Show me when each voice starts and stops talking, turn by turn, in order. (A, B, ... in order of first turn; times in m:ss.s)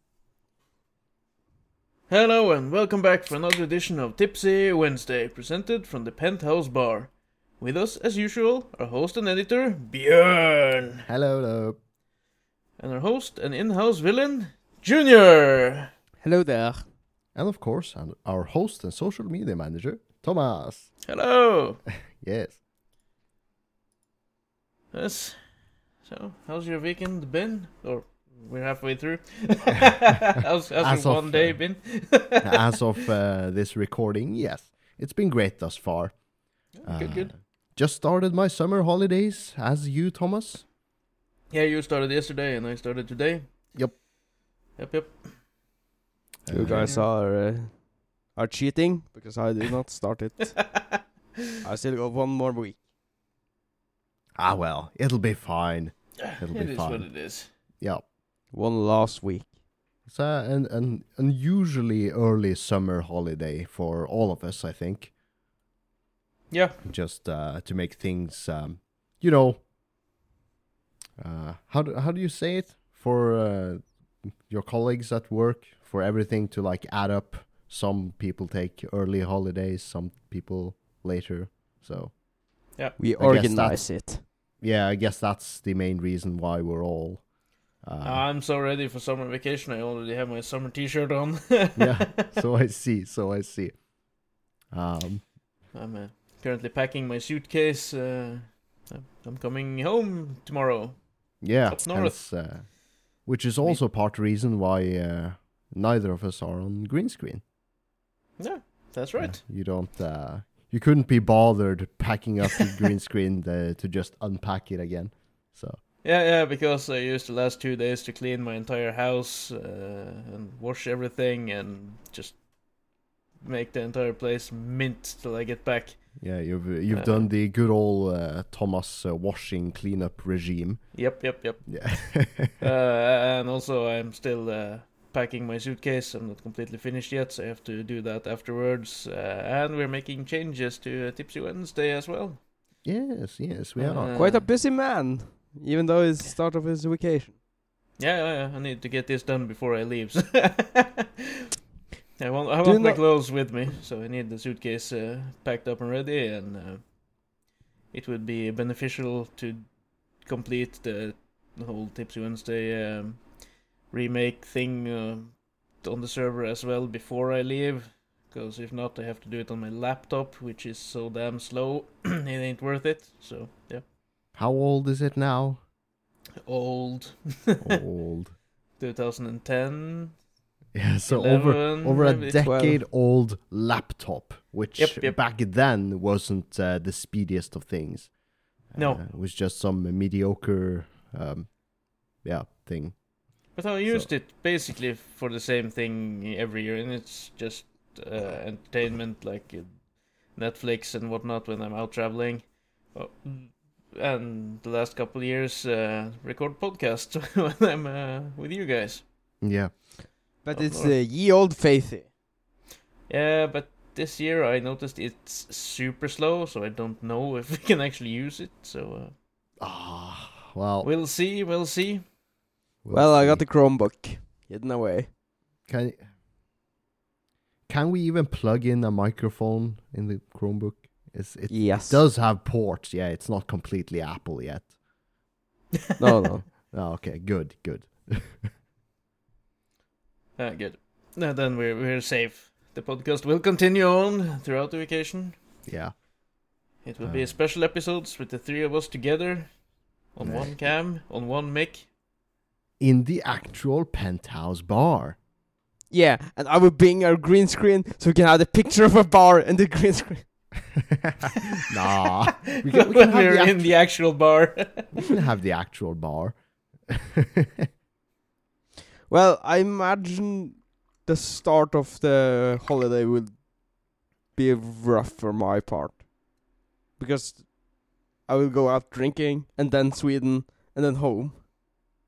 0:02.1-0:11.0 A
0:11.1-0:11.8 B
0:12.8-0:15.9 A
0:16.2-0:16.8 C
0:17.3-0:20.9 B
0:21.0-0:21.8 A
0:22.1-0:22.6 B
0:24.9-0:32.8 A
0:30.8-0:40.7 B
0:36.7-0:37.3 A
0:41.5-0:43.7 A
0:44.8-0:45.3 A
0:46.4-0:46.9 B
0:46.5-0:50.8 C
0:46.6-0:47.0 A
0:50.8-0:51.0 A
0:51.6-0:52.8 C
0:54.4-0:57.3 B
0:56.2-0:57.5 A
0:57.8-0:58.0 B
0:58.5-0:59.5 C
1:00.1-1:05.1 B
1:06.5-1:06.8 A
1:06.8-1:09.6 B
1:11.2-1:22.2 B
1:23.0-1:24.2 C
1:23.2-1:28.2 B
1:28.0-1:32.3 A
1:31.8-1:35.3 B
1:35.7-1:42.2 A
1:41.4-1:47.4 B
1:48.4-1:49.4 A
1:49.2-1:55.8 B
1:56.0-2:06.3 A
2:06.2-2:12.5 B
2:06.9-2:07.3 A
2:10.9-2:22.4 A
2:22.8-2:24.2 B
2:23.8-2:24.5 A
2:24.1-2:27.3 C
2:28.0-2:31.1 A
2:32.2-2:37.0 A
2:32.6-2:33.6 C
2:37.9-2:53.8 A
2:54.3-2:55.6 B
2:56.4-2:57.8 A
2:57.6-2:58.4 B
2:58.8-3:00.2 A
3:00.7-3:14.1 B
3:01.0-3:02.4 A
3:02.4-3:02.8 C
3:04.8-3:05.2 A
3:08.7-3:09.0 A
3:13.5-3:29.0 A
3:29.4-3:29.7 B
3:30.4-3:32.1 C
3:30.5-3:31.0 A
3:33.1-3:39.1 A
3:39.6-3:40.9 B
3:40.8-3:42.0 A
3:42.8-3:43.4 B
3:42.9-3:45.1 C
3:45.7-3:46.0 B
3:47.7-3:54.7 B
3:51.5-3:52.0 C
3:56.0-3:56.5 C
3:56.5-3:58.5 B
4:00.4-4:05.5 A
4:05.6-4:06.0 B
4:06.8-4:11.9 A
4:07.0-4:07.3 B
4:10.2-4:10.5 B
4:12.8-4:15.2 B
4:15.9-4:20.5 C
4:21.7-4:23.8 B
4:22.7-4:24.9 A
4:25.0-4:27.7 B
4:29.1-4:36.1 C
4:37.0-4:41.4 C